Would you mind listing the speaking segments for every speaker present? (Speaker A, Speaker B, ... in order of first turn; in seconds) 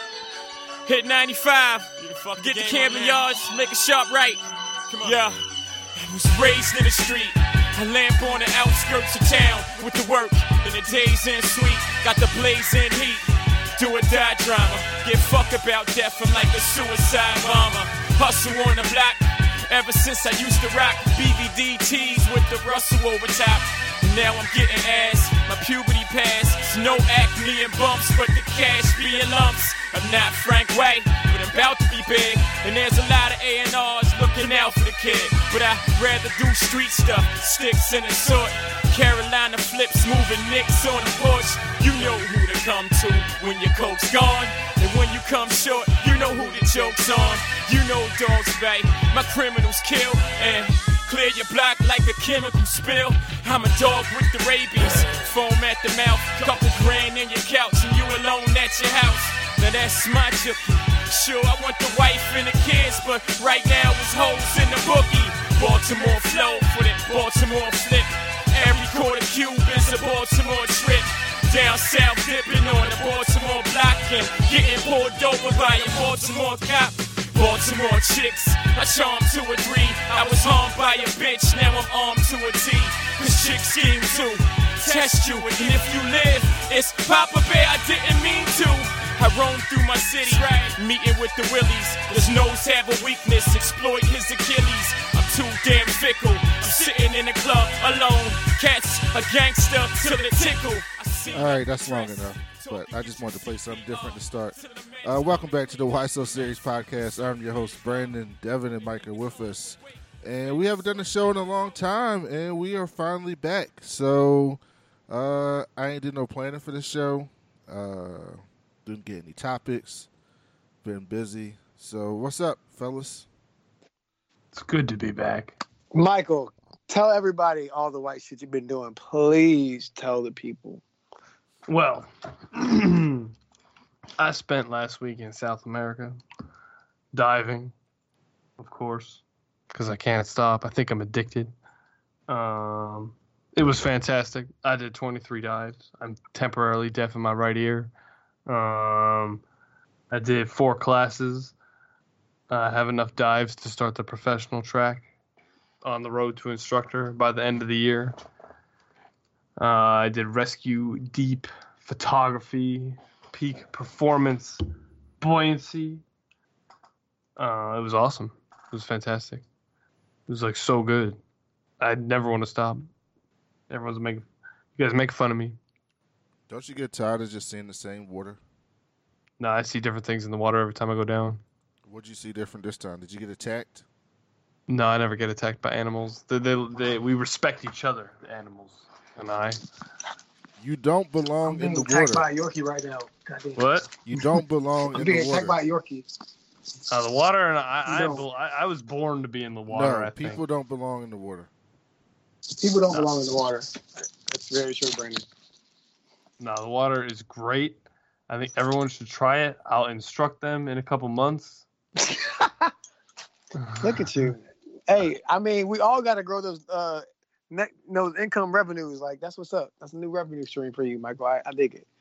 Speaker A: 0.9-5.4, 6.0-105.4
Speaker B: 101.3-120.1, 120.8-123.3, 176.5-178.4, 181.9-183.8, 190.6-192.3, 194.1-195.6, 199.7-201.5
Speaker C: 124.5-125.6, 131.7-133.3, 134.2-136.2, 137.1-137.8, 138.6-141.5, 142.3-147.9, 148.5-149.4, 150.1-151.5, 152.5-155.1, 155.8-158.1, 159.6-164.6, 165.2-166.0, 167.4-169.4, 170.3-171.2, 171.8-172.9, 173.7-175.6, 179.4-181.4, 184.7-189.6, 193.6-193.9, 196.9-200.4, 206.4-211.7, 213.6-214.3
Speaker D: 125.9-130.8, 191.4-194.3, 194.9-196.1, 197.9-198.2, 202.5-205.2, 212.0-212.7, 213.8-221.9